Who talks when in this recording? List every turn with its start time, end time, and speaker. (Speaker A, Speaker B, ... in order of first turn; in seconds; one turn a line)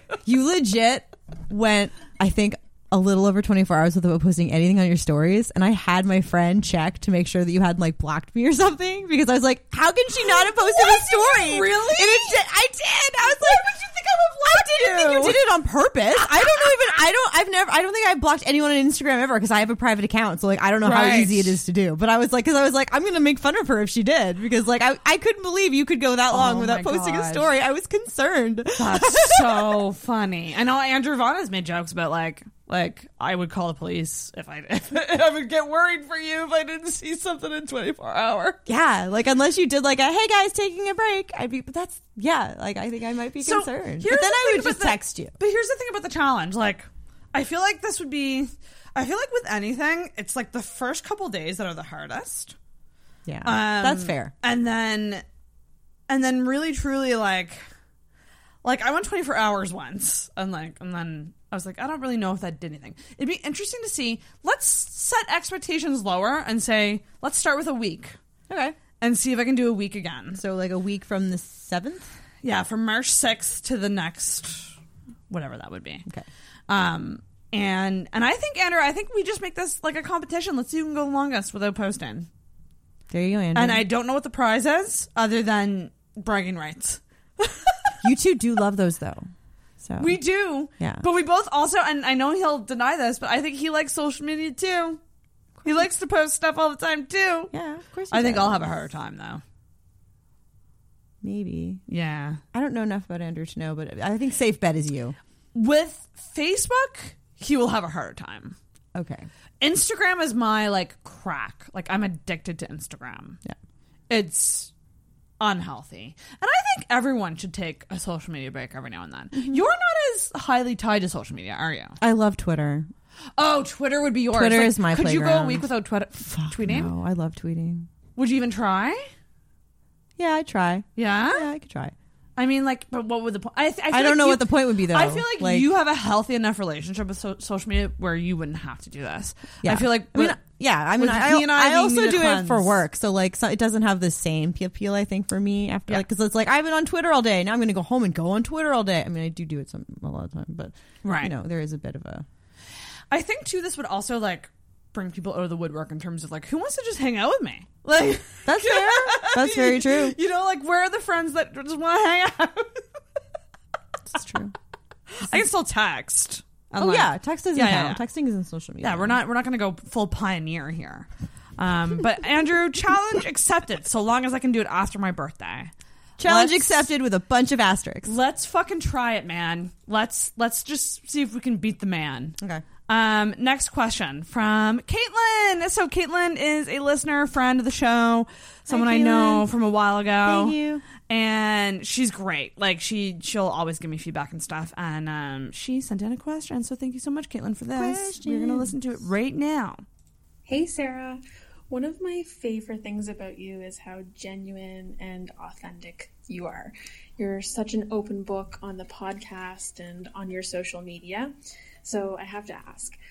Speaker A: 0.3-13.7
Speaker B: 10.2-12.4
Speaker B: 13.2-15.4
Speaker A: 14.4-29.8
Speaker B: 20.8-21.6
Speaker B: 26.3-27.5
Speaker B: 28.8-38.6
Speaker A: 38.7-45.3
Speaker B: 43.4-52.5
Speaker A: 53.3-54.3
Speaker B: 53.5-55.2
Speaker B: 56.1-57.6
Speaker B: 58.6-68.2
Speaker A: 68.5-68.8
Speaker B: 69.0-70.4
Speaker A: 70.3-72.1
Speaker B: 72.4-74.7
Speaker B: 75.3-76.1
Speaker B: 76.7-82.3
Speaker A: 83.1-83.8
Speaker B: 83.5-87.9
Speaker A: 88.0-89.3
Speaker A: 89.8-90.2
Speaker B: 90.0-95.0
Speaker A: 90.8-91.0
Speaker B: 95.7-97.5
Speaker A: 97.5-98.8
Speaker B: 98.1-99.4
Speaker A: 101.2-101.8
Speaker B: 101.9-102.4
Speaker A: 102.5-105.2
Speaker B: 105.5-108.6
Speaker A: 108.9-109.3
Speaker B: 109.6-113.4
Speaker B: 114.1-114.7
Speaker B: 115.4-122.0
Speaker A: 119.3-119.6
Speaker A: 122.0-122.9
Speaker B: 123.4-126.9
Speaker A: 124.3-125.7
Speaker A: 126.3-127.9
Speaker B: 128.2-129.1
Speaker A: 130.2-131.9
Speaker B: 131.0-131.5
Speaker B: 132.4-140.4
Speaker A: 133.9-135.7
Speaker A: 139.6-152.3
Speaker B: 141.0-142.8
Speaker B: 151.0-151.3
Speaker B: 153.1-162.8
Speaker A: 157.9-160.2
Speaker A: 164.1-164.5
Speaker B: 165.2-168.0
Speaker A: 166.8-169.2
Speaker B: 168.8-176.9
Speaker A: 176.2-178.1
Speaker B: 178.1-199.8
Speaker A: 188.7-189.5
Speaker A: 190.2-190.8
Speaker A: 197.7-198.8
Speaker C: 200.5-211.3
Speaker C: 211.8-213.0